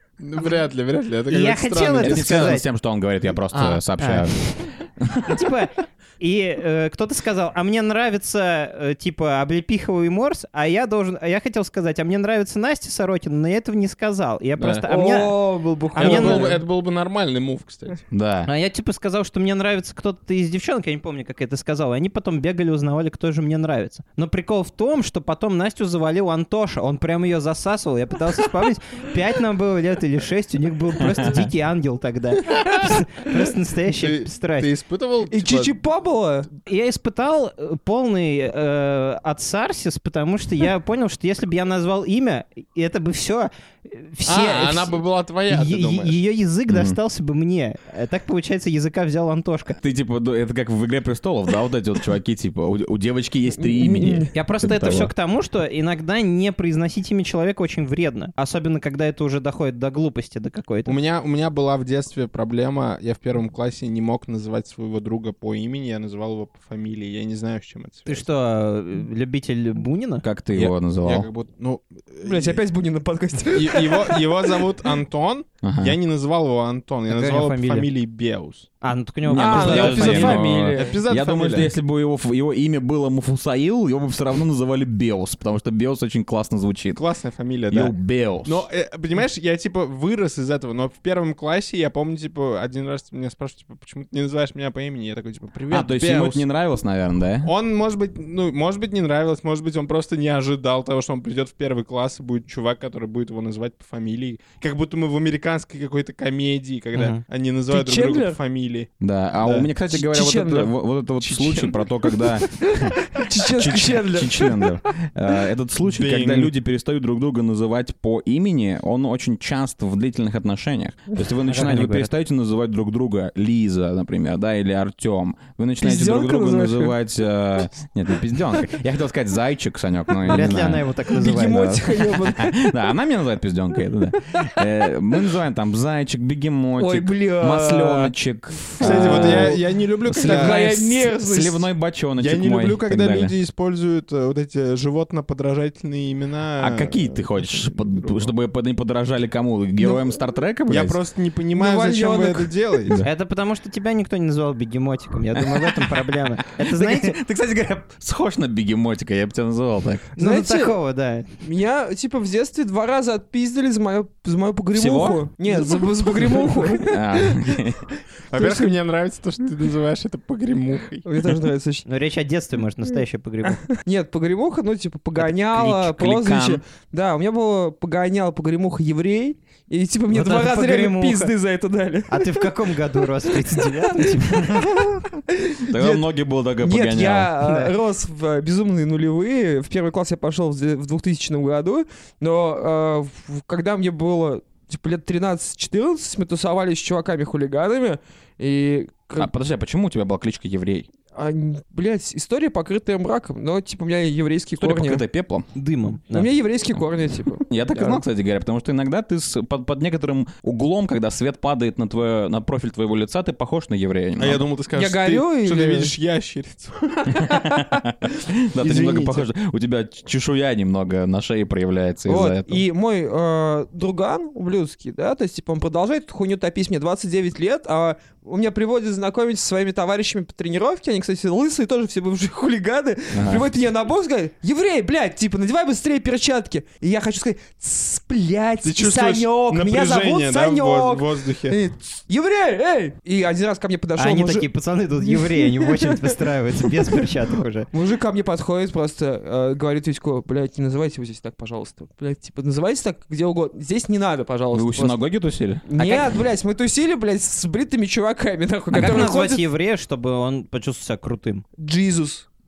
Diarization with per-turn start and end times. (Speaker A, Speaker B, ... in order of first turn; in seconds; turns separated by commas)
Speaker A: 0.2-2.3, Speaker B: 1.3-2.7, Speaker C: 2.0-5.3, Speaker A: 3.5-3.8, Speaker B: 4.0-4.3, Speaker B: 5.2-15.4, Speaker A: 14.6-14.9, Speaker D: 14.8-16.6, Speaker B: 15.9-16.6, Speaker A: 15.9-18.0, Speaker C: 18.1-18.5, Speaker B: 18.4-34.7, Speaker C: 31.1-31.4, Speaker A: 33.9-35.8, Speaker D: 35.3-36.5, Speaker B: 36.6-49.8, Speaker A: 44.2-46.2, Speaker C: 46.7-47.0, Speaker C: 49.8-55.1, Speaker D: 53.5-54.3, Speaker B: 54.3-61.0, Speaker A: 60.9-68.3, Speaker B: 68.1-70.2, Speaker C: 70.2-71.3, Speaker A: 70.5-72.6, Speaker D: 72.2-74.6, Speaker A: 73.5-78.7, Speaker C: 75.6-76.0, Speaker B: 77.1-77.9, Speaker B: 78.8-80.4, Speaker C: 79.2-87.0, Speaker D: 79.3-81.0, Speaker A: 79.6-81.7, Speaker A: 86.9-96.4, Speaker C: 87.7-88.6, Speaker C: 95.7-97.5, Speaker A: 97.4-109.7, Speaker B: 106.9-107.2, Speaker D: 107.7-108.4, Speaker C: 109.0-113.0, Speaker D: 109.9-110.8, Speaker A: 111.2-111.9, Speaker D: 112.5-114.8, Speaker C: 113.5-130.8, Speaker A: 115.8-116.5, Speaker B: 121.5-122.1, Speaker D: 125.8-127.0, Speaker B: 130.3-131.8, Speaker D: 131.1-132.6, Speaker C: 132.4-139.6, Speaker D: 136.8-138.1, Speaker D: 138.7-139.6, Speaker A: 138.8-141.1, Speaker D: 140.1-141.7, Speaker C: 140.1-143.3, Speaker A: 142.2-148.3, Speaker C: 146.6-151.0, Speaker A: 150.7-153.0, Speaker D: 151.5-152.5, Speaker B: 153.0-157.2, Speaker C: 155.4-160.1, Speaker D: 160.2-160.8, Speaker B: 160.2-161.3, Speaker D: 161.4-167.0, Speaker C: 164.7-165.3, Speaker A: 165.5-166.9, Speaker C: 166.9-167.8, Speaker A: 168.3-171.1, Speaker D: 168.3-168.8, Speaker D: 171.1-171.8, Speaker B: 171.9-173.6, Speaker D: 173.5-186.0, Speaker C: 175.2-176.6, Speaker B: 180.1-181.3, Speaker B: 182.1-184.7, Speaker C: 185.7-187.3, Speaker D: 186.6-199.3, Speaker B: 187.4-187.7, Speaker C: 199.2-200.9, Speaker D: 201.1-205.0, Speaker C: 204.6-205.5, Speaker B: 205.6-206.3, Speaker D: 206.1-208.0, Speaker C: 207.5-214.4, Speaker A: 214.2-217.4, Speaker D: 214.8-215.9, Speaker C: 217.2-222.6, Speaker A: 218.6-219.3, Speaker D: 222.0-244.5, Speaker C: 233.1-233.5, Speaker A: 238.6-241.6, Speaker B: 244.0-247.7, Speaker D: 245.0-246.2, Speaker D: 247.7-255.0, Speaker C: 254.5-255.6, Speaker D: 255.7-259.4, Speaker B: 255.8-256.1, Speaker B: 258.7-261.4, Speaker C: 258.8-259.1, Speaker D: 261.6-262.3